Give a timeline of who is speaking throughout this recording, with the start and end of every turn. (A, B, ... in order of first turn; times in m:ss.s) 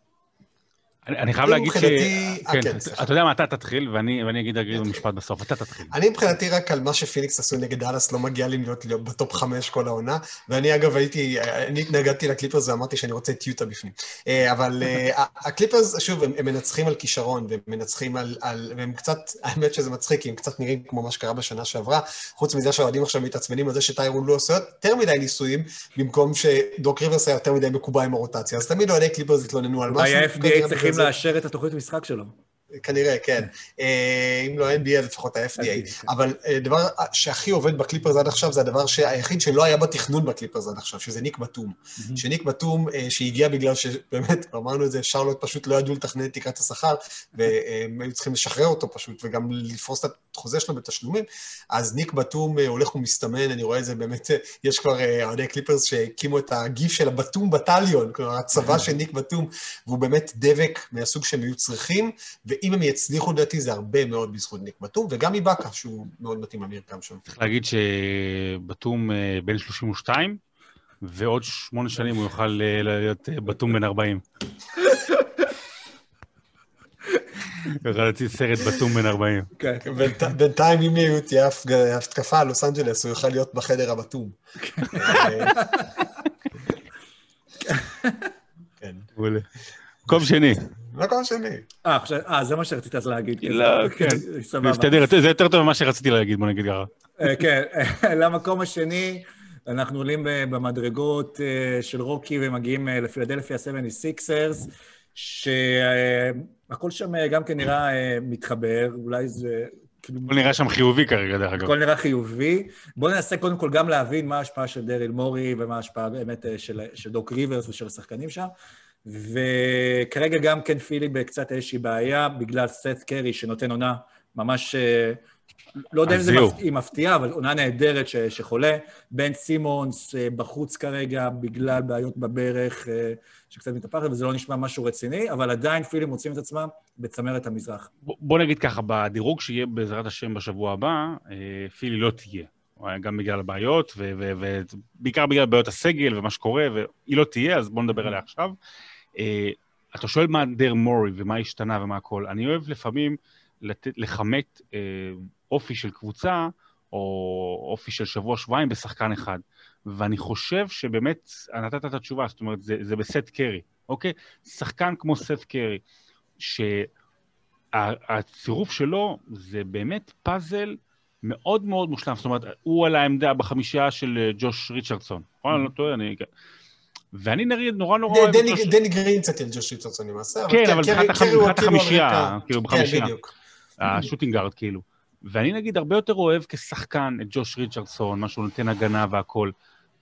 0:01.0-0:06.0 A
0:01.4-0:03.0 B
0:04.7-0:05.0 B
0:05.9-0:31.1 B
0:29.9-0:32.3 C
0:32.7-1:07.2 B
0:35.6-0:36.1 C
0:42.0-0:42.2 C
1:07.3-1:10.4 A
1:11.0-1:14.2 A
1:14.8-1:15.2 C
1:17.7-1:19.5 A
1:19.6-1:19.8 C
1:19.8-1:24.4 B
1:24.7-1:25.8 C
1:24.9-1:25.7 B
1:27.7-1:28.3 C
1:28.8-1:29.1 B
1:29.2-1:29.5 A
1:30.1-1:30.6 A
1:30.8-1:31.7 B
1:31.8-1:35.0 C
1:33.4-1:36.9 A
1:37.2-1:50.4 C
1:50.3-1:51.7 A
1:51.6-1:58.5 C
1:59.0-2:05.2 C
2:05.9-2:17.9 C
2:06.1-2:06.6 A
2:18.0-2:28.5 A
2:29.1-2:45.8 A
2:46.4-2:46.9 A
2:47.7-2:56.3 A
2:57.1-2:58.8 A
2:58.1-3:03.3 B
3:00.5-3:03.1 A
3:03.8-3:09.5 A